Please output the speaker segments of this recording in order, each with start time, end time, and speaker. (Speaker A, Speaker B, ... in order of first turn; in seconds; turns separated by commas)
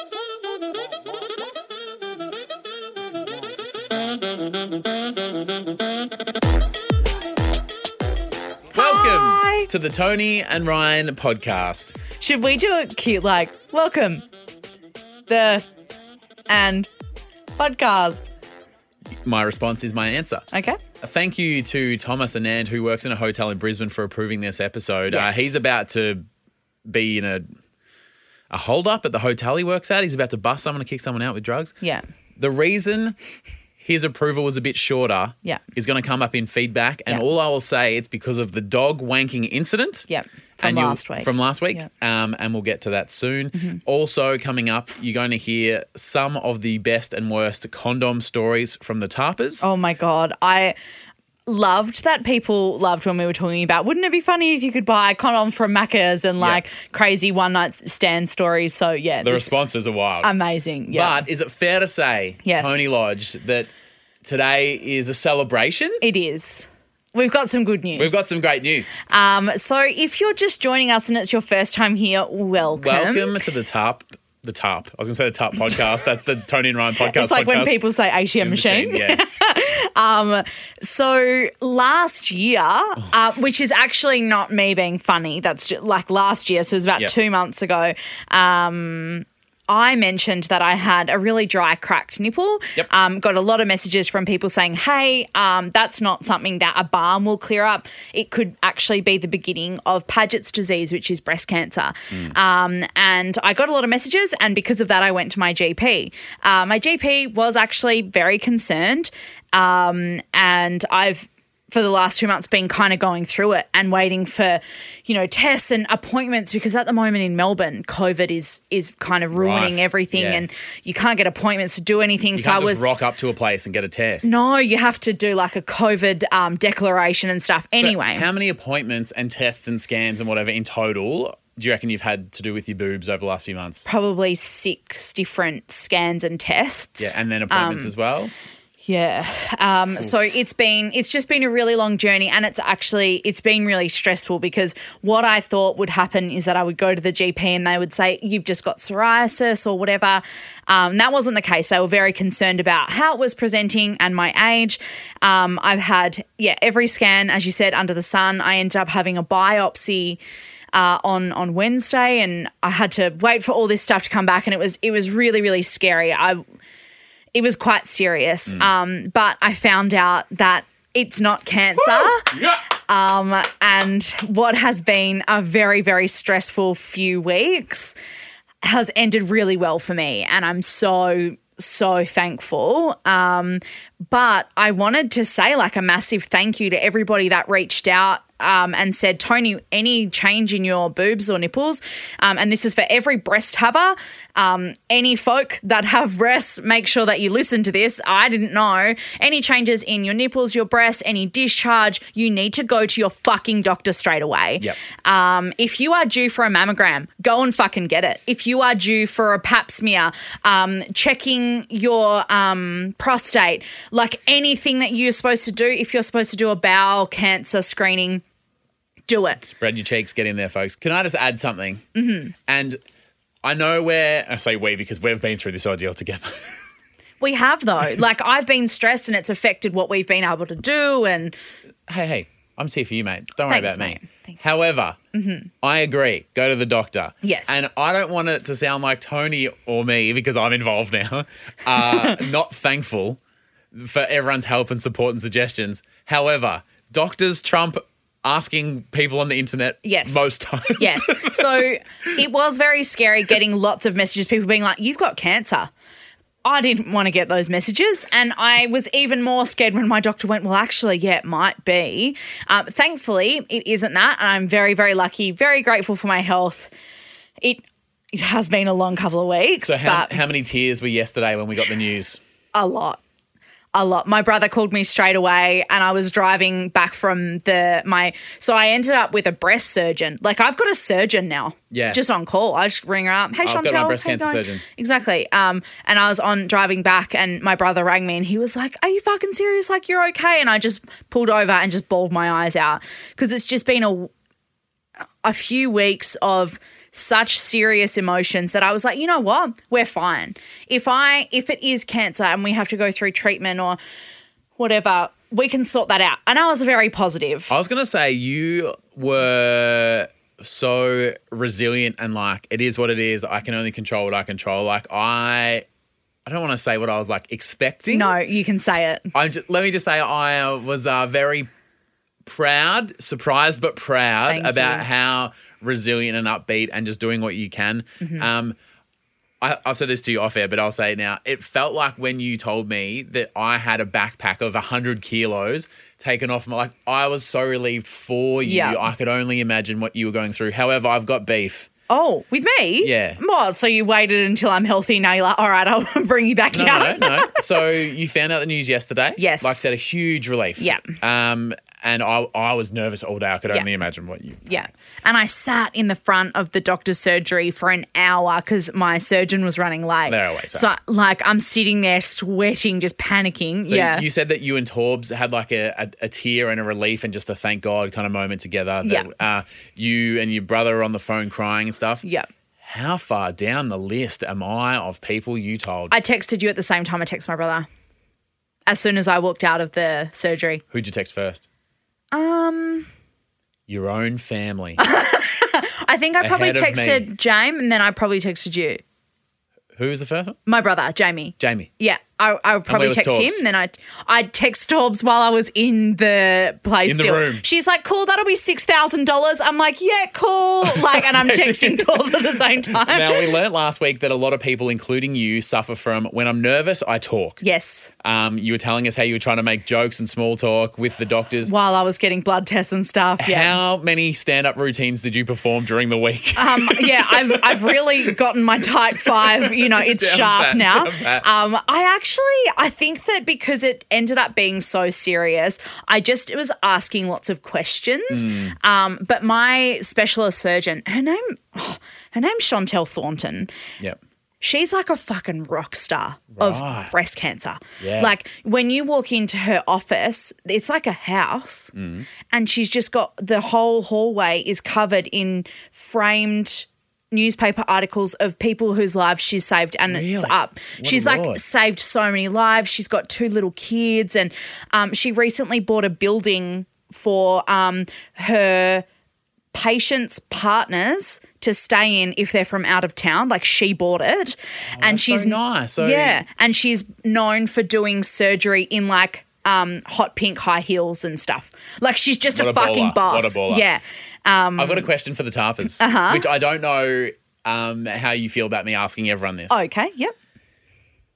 Speaker A: 8.7-9.7, Speaker B: 8.7-11.9, Speaker A: 12.2-14.2, Speaker A: 15.3-15.7, Speaker A: 16.5-16.9, Speaker A: 17.6-18.2, Speaker B: 19.2-20.5, Speaker A: 20.5-20.8, Speaker B: 21.0-26.2, Speaker A: 25.1-25.6, Speaker B: 26.9-27.5, Speaker B: 28.5-31.8, Speaker B: 32.4-33.2, Speaker B: 33.8-40.1, Speaker A: 40.1-41.9, Speaker B: 40.6-49.7, Speaker A: 43.5-43.8, Speaker A: 49.6-50.8, Speaker A: 51.5-59.6, Speaker B: 59.2-60.3, Speaker A: 60.2-61.2, Speaker B: 60.9-63.7, Speaker A: 62.4-62.8, Speaker B: 64.2-66.0, Speaker A: 66.0-68.3, Speaker B: 68.0-69.0, Speaker A: 69.0-73.4, Speaker B: 72.8-77.8, Speaker A: 77.0-122.9, Speaker B: 78.4-79.2, Speaker B: 119.3-120.5, Speaker B: 122.4-124.3, Speaker A: 124.2-128.3, Speaker B: 127.8-133.9, Speaker A: 133.8-137.9, Speaker B: 137.0-138.3, Speaker A: 138.8-160.2, Speaker A: 160.7-166.4, Speaker A: 167.3-177.9, Speaker B: 171.8-172.6, Speaker A: 178.6-218.2, Speaker A: 219.1-219.4, Speaker B: 219.4-221.8, Speaker A: 221.9-222.3, Speaker B: 222.5-222.8, Speaker B: 223.4-226.6, Speaker A: 227.2-231.3, Speaker B: 231.9-235.0, Speaker A: 233.5-234.4, Speaker A: 235.1-235.5, Speaker B: 235.6-243.2, Speaker A: 237.2-237.6, Speaker B: 243.7-251.6, Speaker A: 249.8-255.7, Speaker A: 256.4-266.7, Speaker A: 267.4-270.2, Speaker B: 269.6-272.2, Speaker A: 272.5-273.0, Speaker A: 273.7-294.1, Speaker B: 281.7-282.0, Speaker B: 283.4-284.6, Speaker A: 295.2-303.8, Speaker A: 304.6-307.5, Speaker B: 307.5-315.7, Speaker B: 316.2-318.1, Speaker A: 317.9-319.1, Speaker B: 319.1-321.5, Speaker B: 322.2-328.6, Speaker A: 324.3-324.9, Speaker A: 328.0-328.3, Speaker B: 329.4-341.7, Speaker A: 338.4-338.8, Speaker A: 341.9-347.6, Speaker B: 342.8-343.2, Speaker B: 346.5-354.6, Speaker A: 349.2-349.7, Speaker A: 350.6-350.9, Speaker A: 354.5-364.1, Speaker B: 360.1-360.7, Speaker B: 363.7-372.0, Speaker A: 372.0-372.3, Speaker B: 372.6-375.9, Speaker A: 375.9-377.7, Speaker A: 378.7-380.6, Speaker B: 380.7-381.5, Speaker A: 382.1-382.9, Speaker B: 383.7-384.8, Speaker A: 384.8-388.8, Speaker B: 386.2-387.1, Speaker B: 389.8-390.4, Speaker A: 390.5-403.3, Speaker B: 391.4-391.7, Speaker B: 392.7-393.4, Speaker B: 396.9-397.4, Speaker B: 400.6-407.4, Speaker A: 407.4-407.9, Speaker B: 408.0-411.5, Speaker A: 411.5-413.6, Speaker B: 413.2-418.1, Speaker A: 416.4-433.5, Speaker B: 419.0-421.3, Speaker B: 428.1-428.6, Speaker A: 434.4-441.7, Speaker B: 436.4-436.9, Speaker B: 437.8-438.1, Speaker B: 441.8-442.1, Speaker A: 442.3-458.9, Speaker B: 449.9-451.4, Speaker A: 459.5-474.9, Speaker B: 464.7-466.2, Speaker B: 472.3-473.7, Speaker B: 474.6-479.6, Speaker A: 475.8-476.3, Speaker A: 479.5-480.1